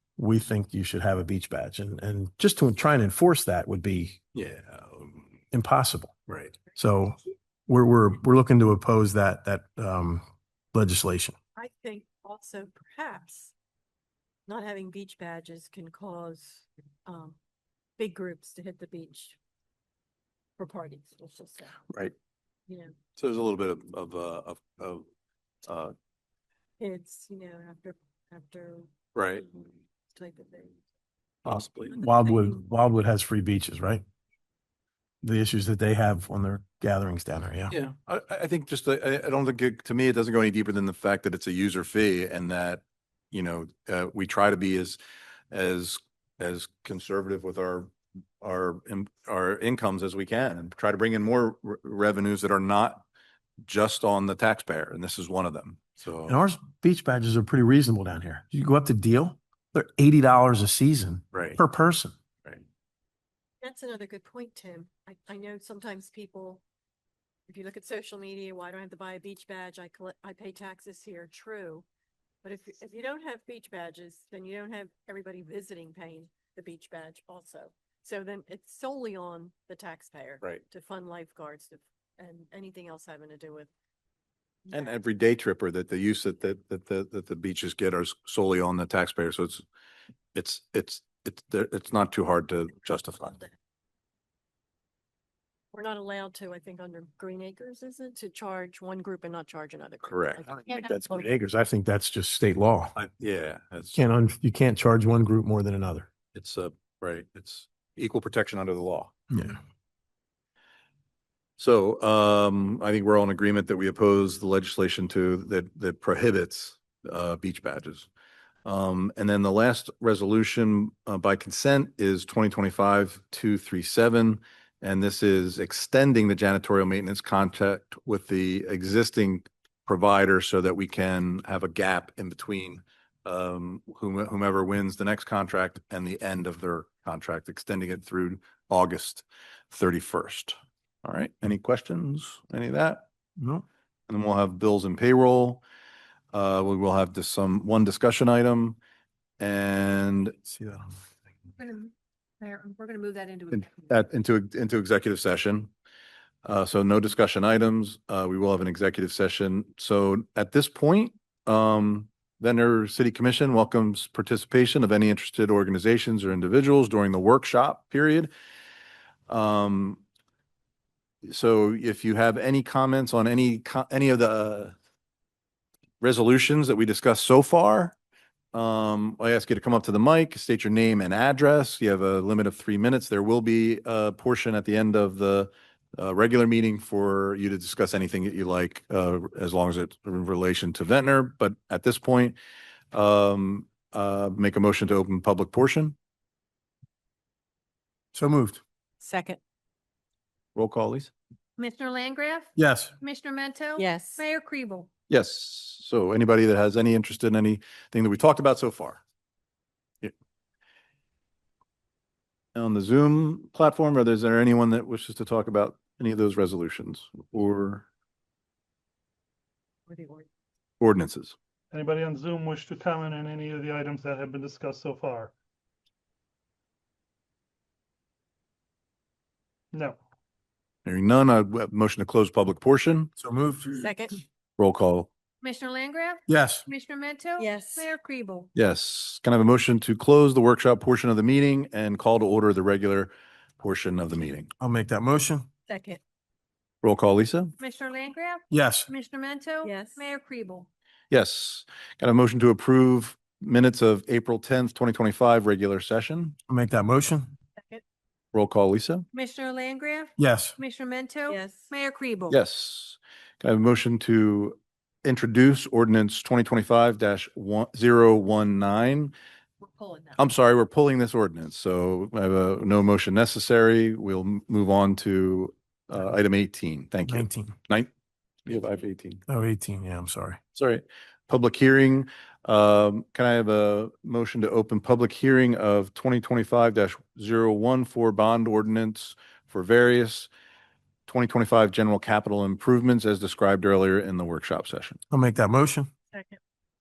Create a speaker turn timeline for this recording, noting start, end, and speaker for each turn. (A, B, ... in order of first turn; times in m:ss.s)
0:00.2-0:04.2 A
0:04.3-0:05.2 B
0:05.5-0:06.2 A
0:06.3-0:06.5 B
0:06.7-0:11.4 A
0:11.6-0:13.5 C
0:14.5-0:17.4 C
0:18.0-0:19.4 C
0:20.6-0:21.8 C
0:23.2-0:25.0 B
0:25.6-0:25.9 B
0:26.8-0:30.8 C
0:29.1-0:29.4 B
0:31.4-0:32.0 B
0:31.9-0:34.0 A
0:32.1-0:32.6 C
0:35.2-0:37.7 A
0:37.7-0:45.0 B
0:45.5-0:53.0 B
0:53.6-0:56.4 B
0:56.3-1:02.1 A
1:01.3-1:01.6 B
1:03.6-1:06.6 C
1:07.5-1:11.8 C
1:12.4-1:23.7 C
1:24.6-1:25.0 C
1:24.7-1:29.6 B
1:30.3-1:33.4 B
1:35.7-1:41.2 C
1:40.0-1:40.4 B
1:40.6-1:42.9 A
1:42.9-1:44.0 B
1:43.9-1:46.1 A
1:46.3-1:49.1 B
1:49.3-1:49.6 A
1:51.6-1:58.1 B
1:58.6-2:23.0 B
2:23.4-2:23.6 A
2:24.1-2:25.6 B
2:26.3-2:28.8 B
2:29.4-2:30.4 B
2:30.4-2:30.9 A
2:31.6-2:33.7 D
2:33.5-2:35.7 B
2:36.4-2:48.3 B
2:49.3-2:50.0 B
2:51.2-2:54.7 B
2:56.0-2:57.9 B
2:58.5-3:12.4 B
3:12.9-3:15.9 B
3:18.1-3:18.6 A
3:19.0-3:19.4 C
3:20.5-3:21.1 B
3:21.6-3:24.9 D
3:22.6-3:22.9 A
3:23.8-3:24.2 C
3:25.1-3:29.0 B
3:32.5-3:37.8 B
3:39.9-3:40.3 C
3:40.8-3:41.3 B
3:41.7-3:45.3 E
3:49.7-3:50.0 E
3:50.8-3:53.1 B
3:53.2-3:53.9 A
3:53.8-3:54.2 C
3:54.6-3:55.1 B
3:55.4-3:58.5 D
3:56.3-3:56.6 A
3:57.4-3:57.9 C
3:58.5-4:04.5 B
4:04.6-4:05.5 A
4:05.7-4:06.0 C
4:06.8-4:07.5 B
4:07.6-4:10.7 D
4:08.5-4:08.9 A
4:09.6-4:10.0 C
4:11.1-4:16.3 B
4:16.5-4:17.3 A
4:17.6-4:17.8 C
4:18.3-4:19.0 B
4:19.1-4:22.4 D
4:20.2-4:20.6 A
4:21.3-4:21.7 C
4:22.3-4:29.1 B
4:29.6-4:30.2 C
4:30.2-4:37.9 B
4:37.1-4:37.6 A
4:38.4-4:39.2 B
4:39.3-4:40.4 A
4:40.6-4:50.3 B
4:51.1-4:55.0 B
4:55.1-4:55.9 A
4:56.1-4:56.4 C